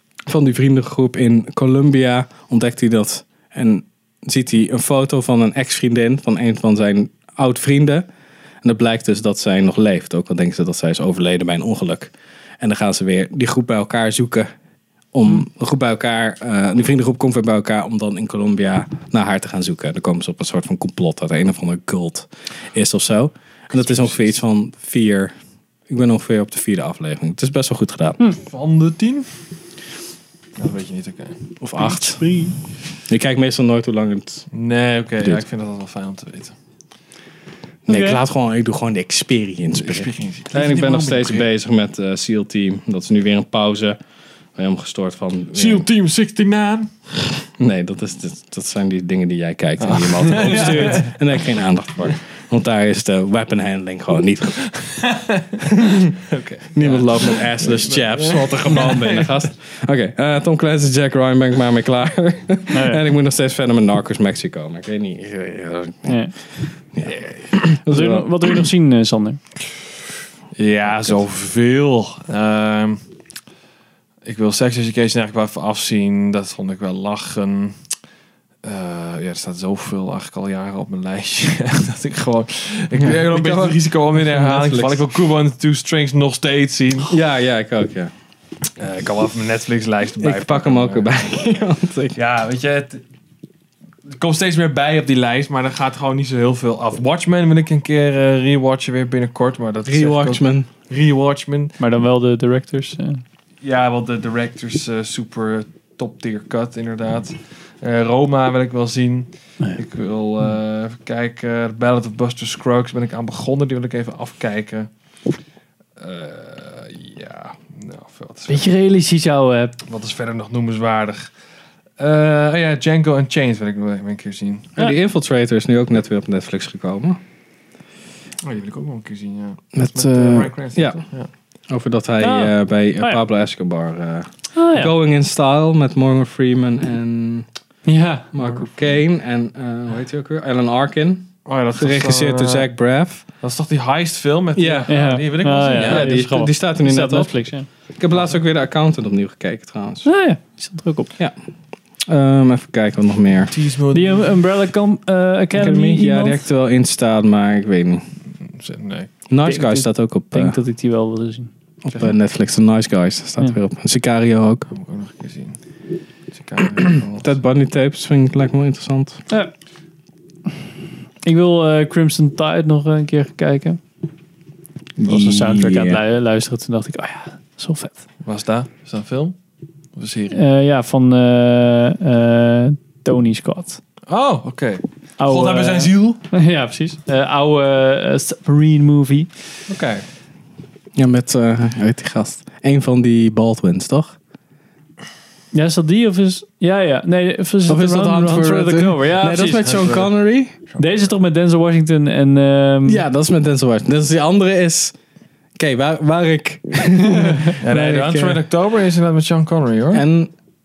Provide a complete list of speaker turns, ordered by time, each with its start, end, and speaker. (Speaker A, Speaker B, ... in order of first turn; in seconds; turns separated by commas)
Speaker A: 0.3-8.1, Speaker A: 8.6-14.5, Speaker A: 15.1-25.3, Speaker B: 23.7-24.3, Speaker A: 25.9-28.2, Speaker B: 28.4-29.3, Speaker B: 30.6-31.4, Speaker A: 31.6-32.2, Speaker C: 31.8-32.5, Speaker A: 33.1-34.5, Speaker B: 34.5-36.5, Speaker C: 37.9-38.2, Speaker A: 37.9-44.0, Speaker B: 39.7-41.5, Speaker A: 44.5-45.9, Speaker B: 45.5-46.9, Speaker A: 47.6-54.7, Speaker B: 49.8-51.2, Speaker B: 54.7-59.5, Speaker A: 55.7-56.0, Speaker A: 56.7-66.2, Speaker C: 62.7-63.0, Speaker C: 66.0-66.3, Speaker A: 66.9-68.3, Speaker C: 67.8-69.4, Speaker B: 70.5-73.0, Speaker B: 74.2-77.8, Speaker B: 78.6-87.2, Speaker A: 83.0-85.0, Speaker A: 87.1-88.1, Speaker B: 88.8-91.1, Speaker A: 90.2-92.2, Speaker B: 92.1-93.0, Speaker B: 94.0-101.8, Speaker A: 99.8-100.7, Speaker C: 101.8-103.2, Speaker B: 103.6-114.9, Speaker B: 116.0-118.7, Speaker C: 118.5-119.7, Speaker B: 119.8-121.3, Speaker B: 122.0-124.7, Speaker A: 124.8-127.2, Speaker B: 128.4-131.3, Speaker A: 129.7-131.0, Speaker A: 131.7-137.5, Speaker C: 132.2-133.2, Speaker C: 134.5-134.9, Speaker C: 137.8-138.3, Speaker A: 138.3-143.2, Speaker B: 141.4-142.7, Speaker B: 143.4-146.1, Speaker A: 144.6-147.4, Speaker C: 144.9-147.7, Speaker A: 147.9-150.1, Speaker B: 148.1-148.4, Speaker C: 150.0-151.1, Speaker A: 152.1-153.5, Speaker B: 153.5-154.4, Speaker C: 153.9-156.4, Speaker A: 155.5-158.0, Speaker B: 158.4-159.1, Speaker A: 159.3-160.6, Speaker C: 159.4-161.5, Speaker A: 161.8-164.7, Speaker B: 164.7-165.6, Speaker B: 166.3-167.4, Speaker A: 167.2-169.2, Speaker C: 171.2-173.8, Speaker A: 175.0-176.0, Speaker C: 175.1-178.0, Speaker B: 178.2-179.4, Speaker B: 179.9-180.4, Speaker C: 180.3-183.8, Speaker B: 184.1-186.2, Speaker C: 185.2-189.3, Speaker B: 189.7-190.0, Speaker A: 190.9-194.2, Speaker C: 195.5-199.9, Speaker A: 197.7-200.6, Speaker B: 199.4-201.1, Speaker C: 200.8-203.0, Speaker A: 202.8-204.9, Speaker A: 205.6-208.4, Speaker C: 207.1-207.4, Speaker B: 207.6-210.0, Speaker A: 209.9-210.3